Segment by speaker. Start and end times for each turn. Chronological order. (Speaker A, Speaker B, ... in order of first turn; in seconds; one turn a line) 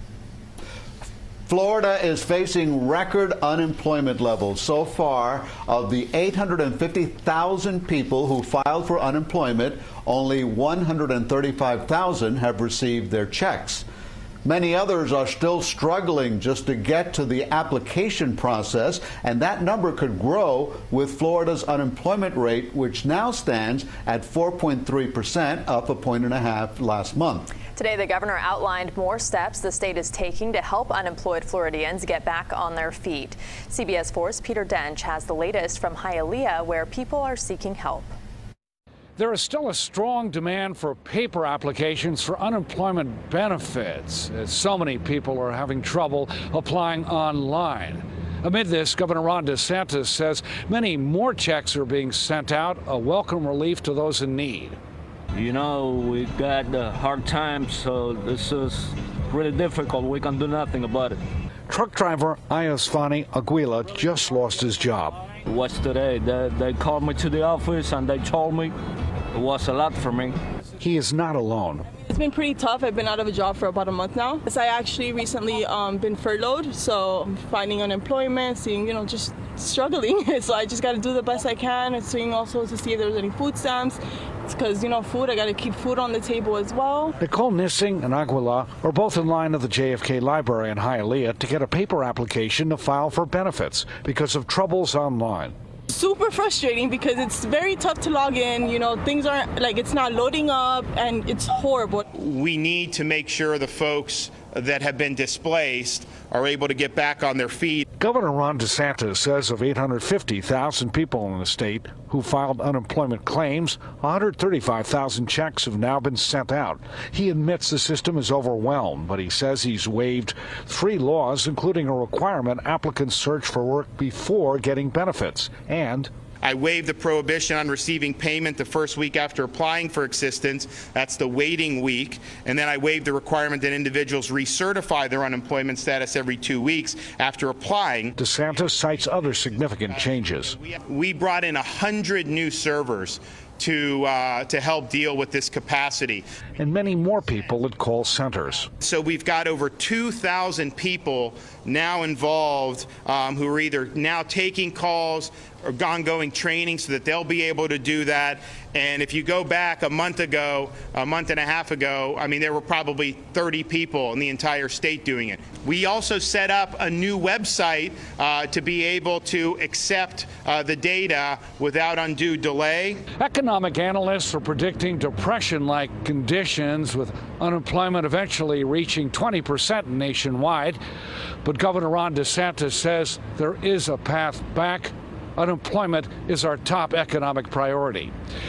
Speaker A: 1.5-13.9
Speaker A: 14.4-27.5
Speaker B: 27.7-38.2
Speaker C: 39.2-54.8
Speaker D: 55.3-61.2
Speaker C: 61.7-65.2
Speaker D: 65.5-68.7
Speaker D: 69.3-70.4
Speaker C: 70.8-71.8
Speaker E: 72.0-87.2
Speaker C: 87.2-95.5
Speaker E: 95.9-102.1
Speaker F: 102.1-107.8
Speaker C: 108.0-126.1
Speaker F: 126.4-138.2
Speaker C: 138.2-140.6
Speaker F: 139.9-146.2
Speaker C: 146.6-148.7
Speaker F: 148.8-173.0
Speaker C: 173.2-180.8
Speaker C: 181.4-188.1